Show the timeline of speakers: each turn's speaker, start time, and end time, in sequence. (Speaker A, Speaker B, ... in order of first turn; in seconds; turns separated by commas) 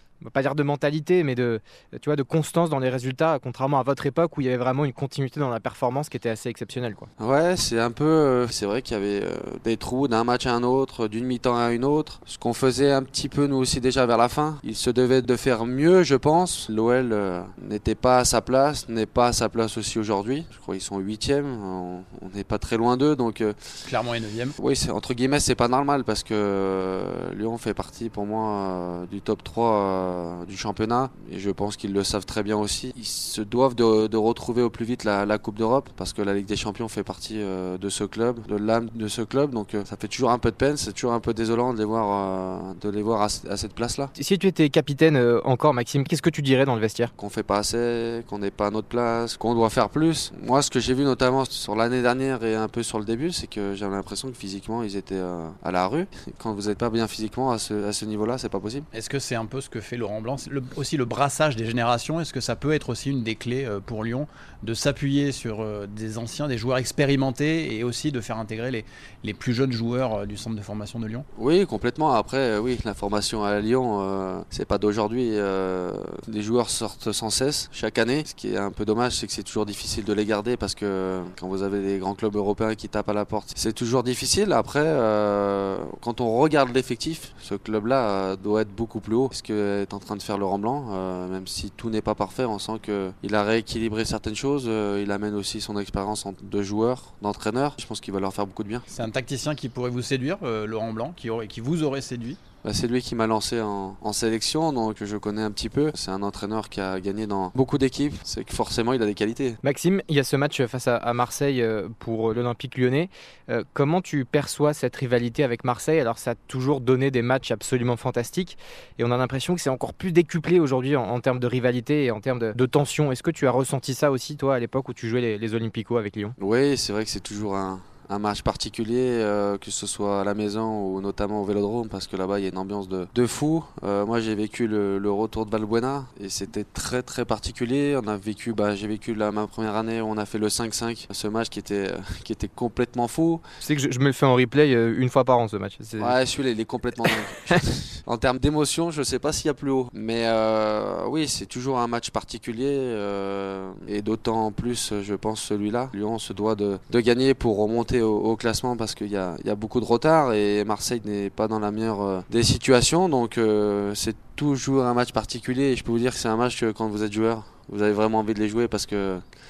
Speaker A: 0.2-7.1, Speaker B: 7.2-23.6, Speaker C: 23.8-24.5, Speaker B: 24.6-44.1, Speaker A: 44.1-47.1, Speaker B: 47.2-58.9, Speaker C: 58.9-71.2, Speaker B: 71.3-98.8, Speaker C: 98.9-102.4, Speaker B: 102.6-109.6, Speaker A: 109.6-126.3, Speaker B: 126.4-143.4, Speaker A: 143.6-146.2, Speaker B: 146.0-169.2